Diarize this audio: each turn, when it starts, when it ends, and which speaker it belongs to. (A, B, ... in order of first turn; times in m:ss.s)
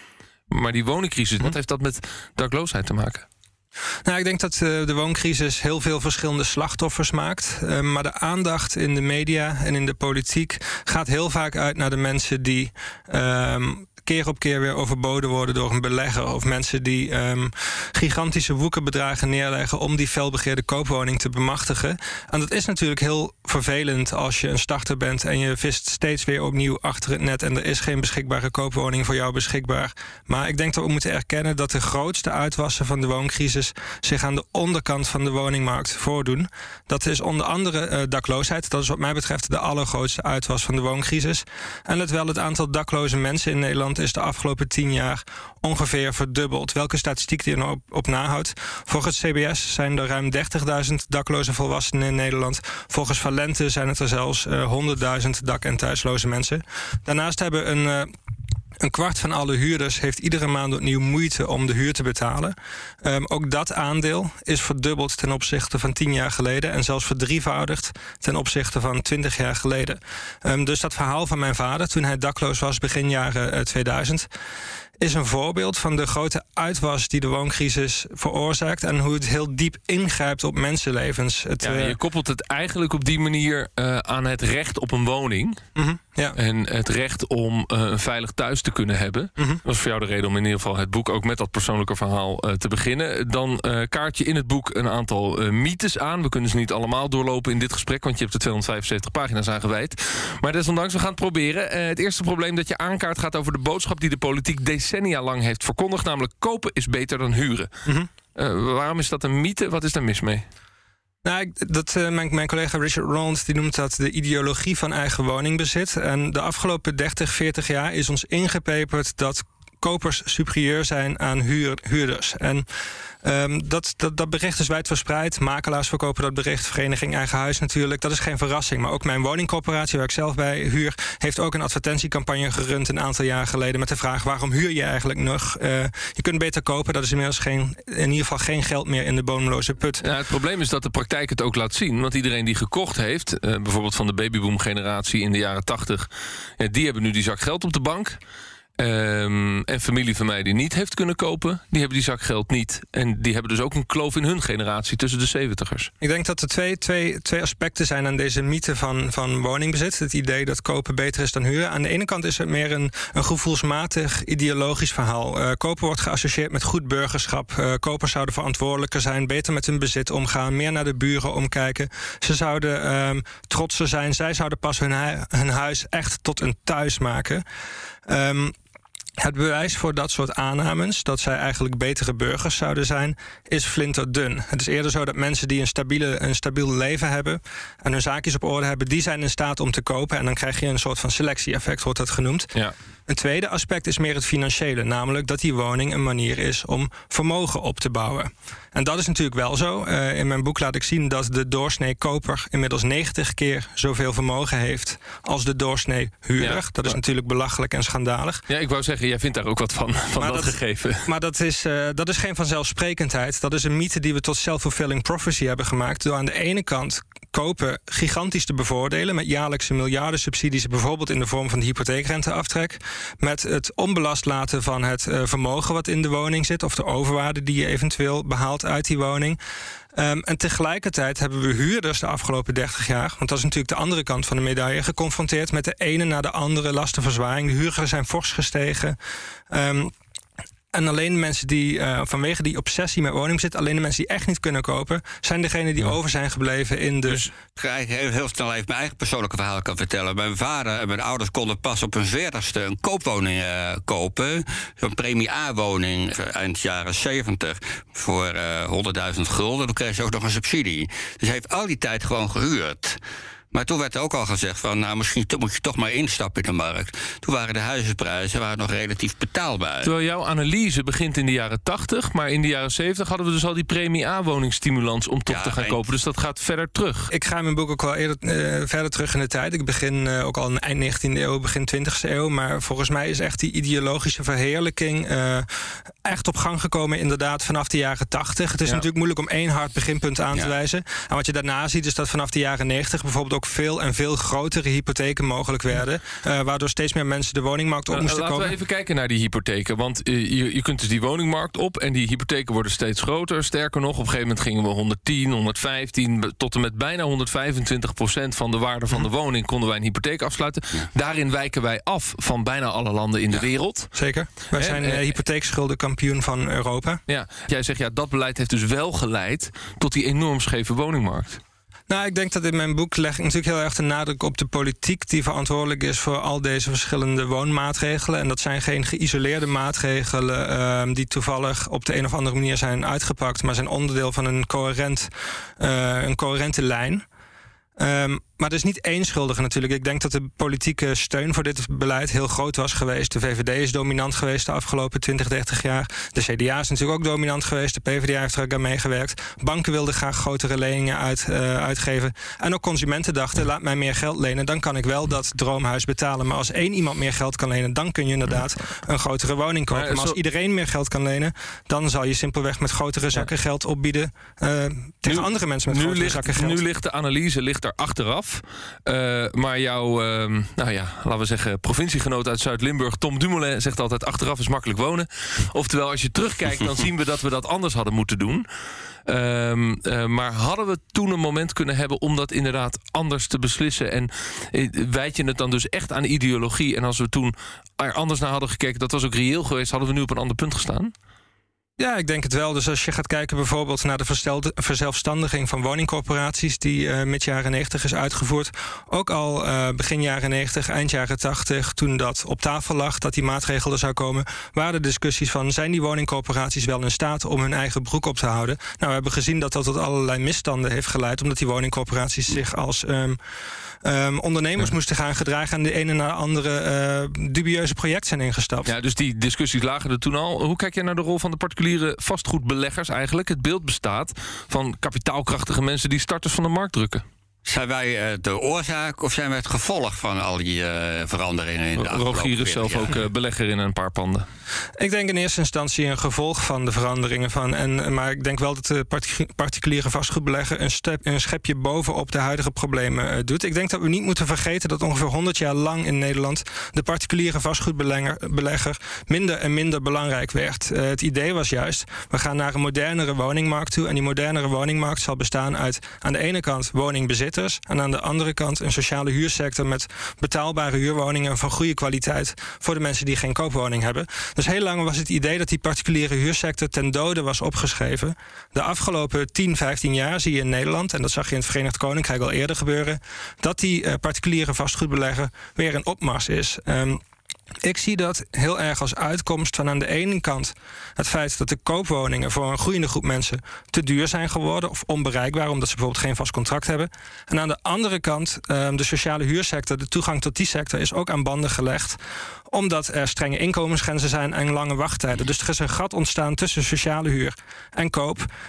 0:00.5-0:03.2 A
0:04.0-0:58.1 B
0:58.8-1:14.3 B
1:15.0-1:21.9 B
1:21.6-1:25.6 A
1:25.8-1:26.4 B
1:26.3-1:47.7 A
1:48.3-1:50.4 A
1:51.2-2:02.6 B
2:03.2-2:20.0 B
2:20.0-2:26.1 A
2:26.6-2:28.2 A
2:28.8-2:35.9 A
2:36.0-2:57.4 B
2:58.1-2:58.5 B
2:59.2-3:12.5 B
3:13.1-3:28.4 B
3:26.4-3:27.0 A
3:28.5-3:31.0 A
3:30.2-3:49.4 B
3:50.0-3:59.0 B
3:59.5-3:59.9 B
4:00.7-4:07.2 B
4:07.6-4:23.0 C
4:23.5-4:29.9 C
4:29.8-4:37.1 A
4:35.3-4:35.8 C
4:37.1-4:45.5 B
4:46.0-4:58.5 B
4:57.9-5:13.9 A
5:13.9-5:17.0 B
5:14.5-5:15.1 A
5:17.1-5:21.4 A
5:21.9-5:35.1 B
5:35.6-5:37.0 B
5:37.8-6:06.6 B
5:59.7-6:00.2 A
6:05.0-6:18.4 A
6:19.0-6:30.9 A
6:31.8-6:53.2 B
6:53.8-6:58.7 B
6:58.6-7:07.0 A
7:07.4-7:12.9 C
7:11.8-7:14.2 A
7:14.8-7:57.0 B
7:57.6-8:12.0 B
8:12.5-8:18.3 B